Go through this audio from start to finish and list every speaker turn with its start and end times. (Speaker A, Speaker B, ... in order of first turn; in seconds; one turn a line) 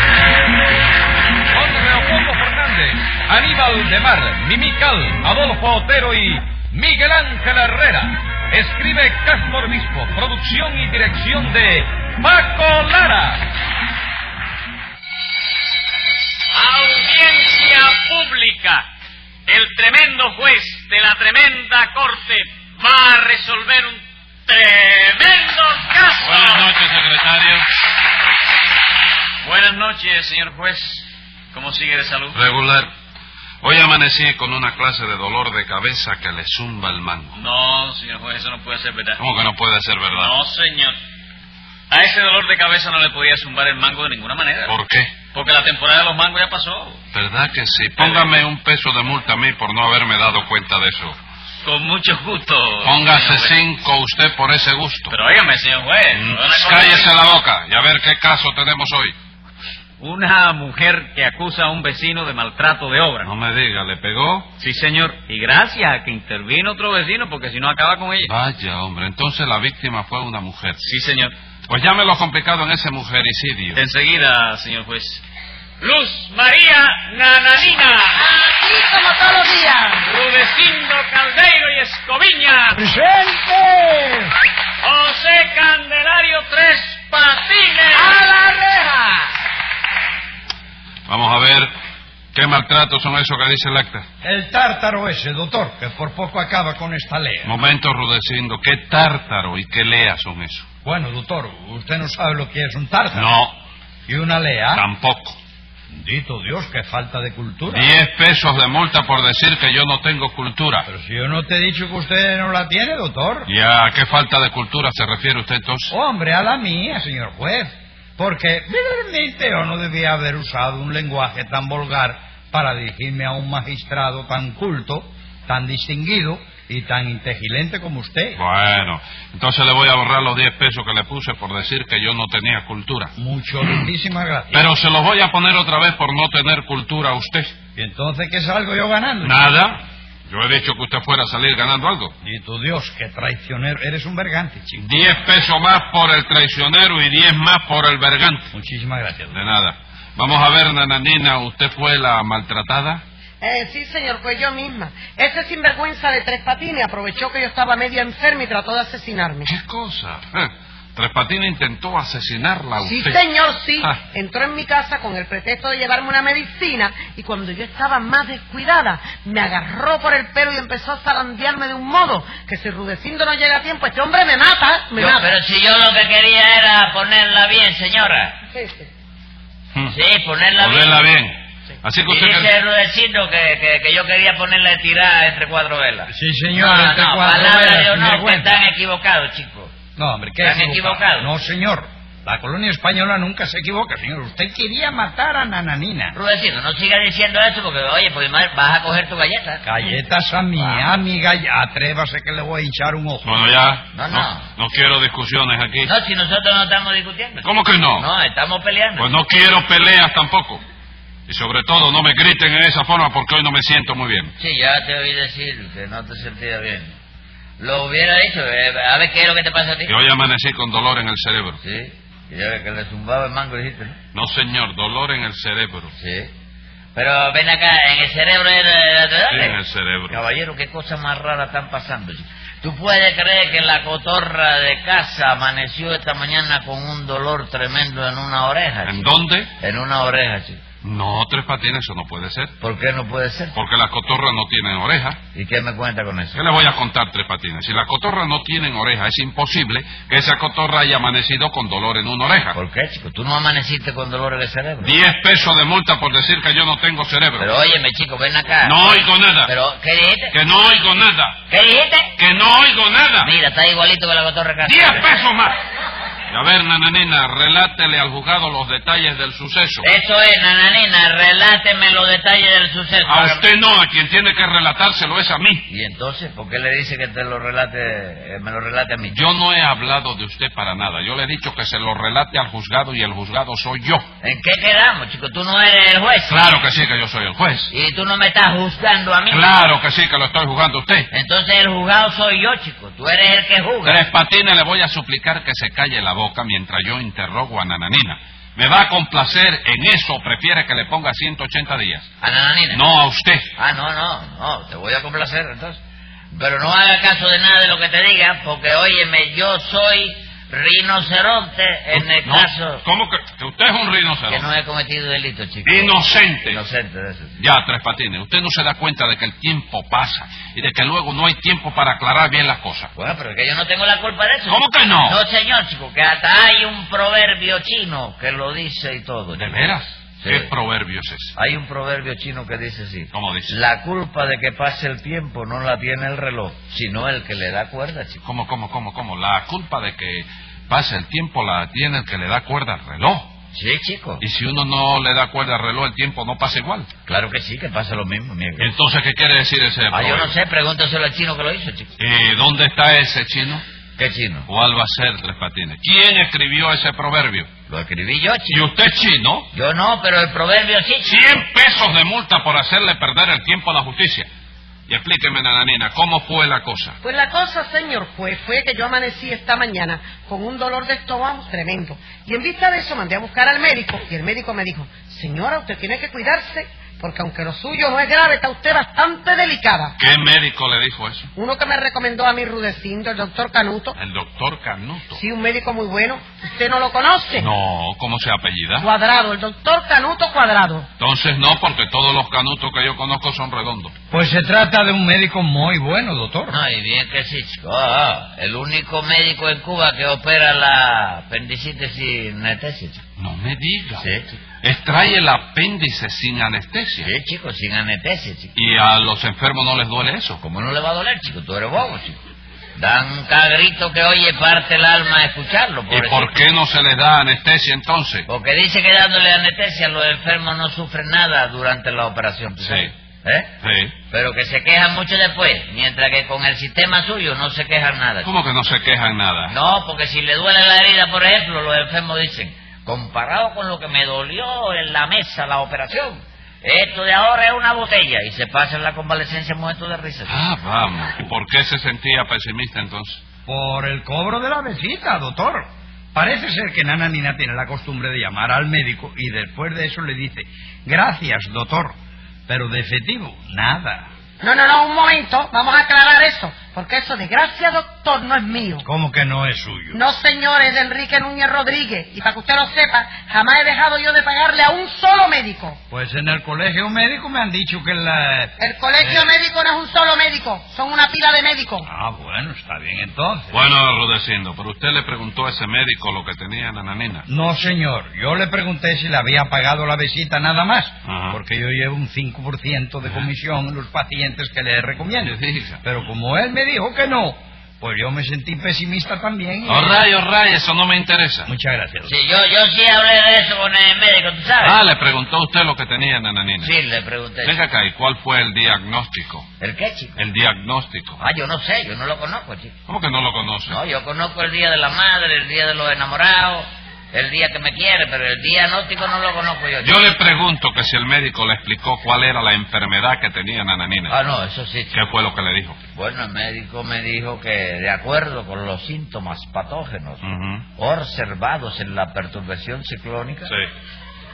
Speaker A: 1.5-13.4
Speaker B: 16.5-18.9
Speaker B: 19.5-26.7
Speaker C: 26.2-27.6
Speaker B: 29.4-32.4
Speaker C: 32.3-32.9
Speaker C: 33.6-37.3
Speaker B: 37.3-39.2
Speaker C: 39.2-40.3
Speaker B: 40.1-41.0
Speaker B: 41.9-44.7
Speaker C: 44.7-45.1
Speaker B: 45.3-47.0
Speaker C: 47.1-51.2
Speaker B: 48.0-48.3
Speaker B: 51.6-53.6
Speaker C: 52.8-55.1
Speaker B: 55.1-57.1
Speaker C: 56.1-59.1
Speaker B: 60.0-63.3
Speaker C: 63.2-64.5
Speaker B: 64.6-68.3
Speaker C: 68.2-70.8
Speaker B: 70.8-71.3
Speaker C: 71.7-73.8
Speaker B: 73.8-75.2
Speaker B: 75.8-78.2
Speaker D: 78.2-80.1
Speaker B: 80.0-82.8
Speaker E: 82.7-84.3
Speaker B: 84.8-88.3
Speaker C: 91.1-91.7
Speaker C: 92.3-94.0
Speaker E: 94.2-97.5
Speaker C: 97.4-100.7
Speaker E: 100.8-103.3
Speaker C: 103.1-103.5
Speaker E: 104.1-104.8
Speaker C: 104.7-105.4
Speaker E: 105.9-107.9
Speaker C: 107.7-110.9
Speaker E: 110.8-113.5
Speaker C: 113.5-115.9
Speaker E: 115.9-128.4
Speaker C: 128.4-133.1
Speaker E: 133.2-134.7
Speaker C: 134.5-137.5
Speaker E: 137.8-139.4
Speaker C: 139.2-142.1
Speaker E: 142.2-144.8
Speaker C: 144.8-148.5
Speaker E: 148.5-149.4
Speaker C: 149.3-153.0
Speaker D: 153.4-159.5
Speaker C: 159.4-163.2
Speaker D: 162.8-175.3
Speaker F: 174.9-178.4
Speaker D: 178.5-178.9
Speaker F: 179.9-181.1
Speaker C: 180.6-182.5
Speaker F: 182.1-189.7
Speaker E: 186.1-188.6
Speaker E: 190.0-196.2
Speaker F: 190.4-191.3
Speaker F: 196.1-199.6
Speaker E: 199.6-203.4
Speaker C: 203.2-205.9
Speaker F: 203.9-204.4
Speaker F: 205.8-209.1
Speaker C: 207.4-208.1
Speaker C: 209.0-210.6
Speaker C: 211.3-214.3
Speaker F: 214.4-216.9
Speaker F: 217.6-219.9
Speaker C: 219.8-221.6
Speaker F: 221.6-224.0
Speaker C: 224.1-225.9
Speaker F: 226.0-226.3
Speaker F: 226.9-229.6
Speaker C: 229.3-230.2
Speaker F: 230.1-240.6
Speaker C: 238.8-239.5
Speaker C: 240.8-242.5
Speaker F: 242.6-243.5
Speaker C: 243.5-245.2
Speaker F: 245.3-246.4
Speaker C: 246.3-252.6
Speaker F: 252.5-254.9
Speaker C: 254.8-257.5
Speaker F: 257.4-260.3
Speaker C: 258.6-259.5
Speaker C: 260.3-261.4
Speaker F: 261.5-262.1
Speaker C: 262.2-263.3
Speaker F: 263.2-265.1
Speaker C: 264.6-265.6
Speaker C: 266.3-269.9
Speaker F: 269.8-273.4
Speaker C: 273.0-275.6
Speaker F: 275.7-279.2
Speaker C: 279.1-284.0
Speaker F: 284.2-286.4
Speaker C: 286.3-287.7
Speaker F: 287.7-289.5
Speaker C: 289.3-291.1
Speaker F: 291.1-294.0
Speaker C: 293.8-302.1
Speaker F: 302.2-302.8
Speaker C: 302.7-303.5
Speaker F: 303.5-305.8
Speaker F: 306.3-312.8
Speaker C: 311.9-314.5
Speaker F: 314.3-317.3
Speaker C: 315.6-316.6
Speaker C: 317.4-322.9
Speaker F: 322.9-329.6
Speaker C: 324.4-325.2
Speaker C: 329.3-331.3
Speaker F: 330.2-330.5
Speaker F: 331.4-338.2
Speaker C: 333.1-333.5
Speaker C: 338.2-343.3
Speaker F: 343.5-344.2
Speaker C: 344.2-346.9
Speaker F: 347.1-348.7
Speaker C: 348.6-350.3
Speaker F: 349.9-351.9
Speaker C: 352.0-353.6
Speaker F: 354.0-354.5
Speaker C: 354.5-357.5
Speaker F: 357.7-358.6
Speaker C: 358.5-359.5
Speaker F: 359.5-361.2
Speaker C: 361.0-364.3
Speaker C: 364.9-367.0
Speaker D: 367.0-379.9
Speaker C: 380.0-381.3
Speaker D: 381.4-383.9
Speaker C: 383.9-385.2
Speaker D: 385.1-387.5
Speaker C: 387.4-388.9
Speaker D: 388.8-390.9
Speaker C: 391.0-393.9
Speaker E: 394.1-396.6
Speaker F: 396.5-403.0
Speaker C: 403.2-404.1
Speaker F: 404.0-404.3
Speaker C: 404.6-407.1
Speaker F: 407.0-408.5
Speaker C: 408.5-410.4
Speaker F: 410.4-412.2
Speaker F: 412.8-416.5
Speaker C: 415.9-418.3
Speaker F: 418.3-423.5
Speaker C: 422.6-422.9
Speaker C: 423.6-423.9
Speaker F: 424.1-428.3
Speaker C: 428.2-429.5
Speaker F: 429.5-440.5
Speaker C: 440.3-443.2
Speaker E: 443.4-451.9
Speaker E: 452.5-454.1
Speaker D: 454.4-458.9
Speaker E: 458.8-460.0
Speaker D: 459.9-465.8
Speaker E: 465.9-469.3
Speaker D: 468.6-471.9
Speaker E: 471.8-473.5
Speaker C: 473.5-477.2
Speaker E: 477.3-490.0
Speaker C: 481.1-481.4
Speaker C: 485.2-485.8
Speaker C: 489.6-491.5
Speaker E: 491.4-492.1
Speaker F: 492.0-494.8
Speaker C: 494.6-496.7
Speaker F: 496.6-497.6
Speaker C: 497.4-499.5
Speaker F: 499.6-500.2
Speaker C: 500.2-501.2
Speaker F: 501.2-502.7
Speaker C: 502.9-503.8
Speaker F: 503.7-510.1
Speaker C: 509.8-514.1
Speaker F: 514.1-515.0
Speaker C: 514.9-515.8
Speaker F: 515.9-520.2
Speaker C: 520.2-520.6
Speaker F: 520.8-523.5